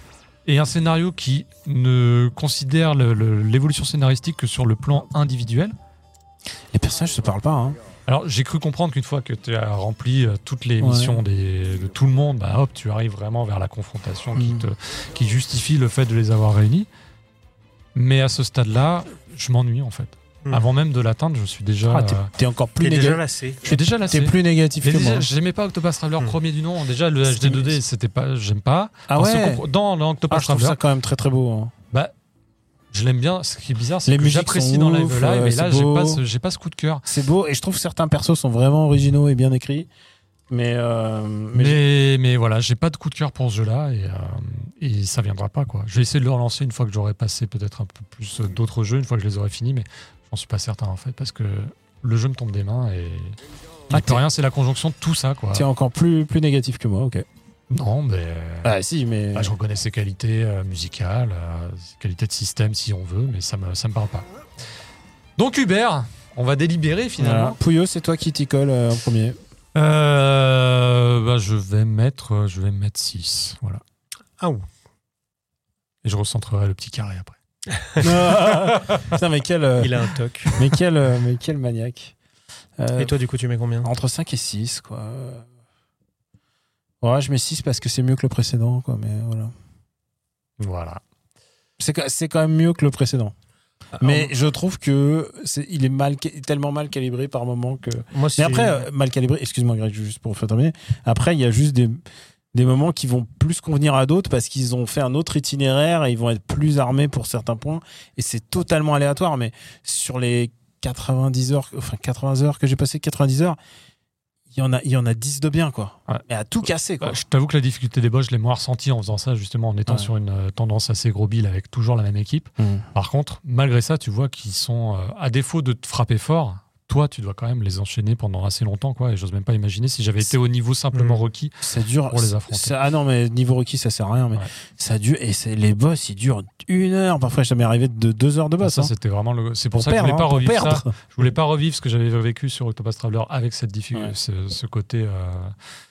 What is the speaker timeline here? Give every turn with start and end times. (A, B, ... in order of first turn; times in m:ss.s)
0:00.4-0:05.8 A
0:06.7-0:07.8 B
0:08.1-0:16.9 A
0:10.8-0:11.2 B
0:14.4-0:14.6 B
0:17.9-0:22.3 A
0:21.8-0:25.3 B
0:22.8-0:23.6 C
0:23.6-0:30.8 A
0:27.2-0:27.8 B
0:29.1-0:29.6 B
0:30.3-0:31.7 B
0:32.9-0:37.0 A
0:34.0-0:36.2 B
0:37.1-0:39.9 B
0:40.5-0:41.8 B
0:41.5-0:53.4 A
0:53.9-0:54.2 B
0:53.9-0:55.7 A
0:55.5-0:57.2 B
0:57.7-0:58.7 A
0:58.6-0:59.5 B
0:59.3-1:04.3 A
1:05.4-1:07.6 A
1:07.2-1:09.4 B
1:09.7-1:13.8 A
1:14.4-1:14.6 C
1:16.0-1:17.4 A
1:18.0-1:22.1 B
1:19.8-1:20.6 C
1:22.8-1:23.2 B
1:23.0-1:23.9 C
1:23.8-1:25.4 B
1:27.0-1:29.5 B
1:30.6-1:31.0 A
1:31.8-1:33.3 B
1:33.9-1:34.3 C
1:34.0-1:42.0 B
1:38.1-1:38.9 C
1:42.5-1:53.6 B
1:54.5-1:57.2 B
1:57.0-2:12.7 A
2:02.6-2:02.9 B
2:10.9-2:11.2 C
2:11.6-2:18.9 B
2:18.6-2:25.5 A
2:19.7-2:20.9 B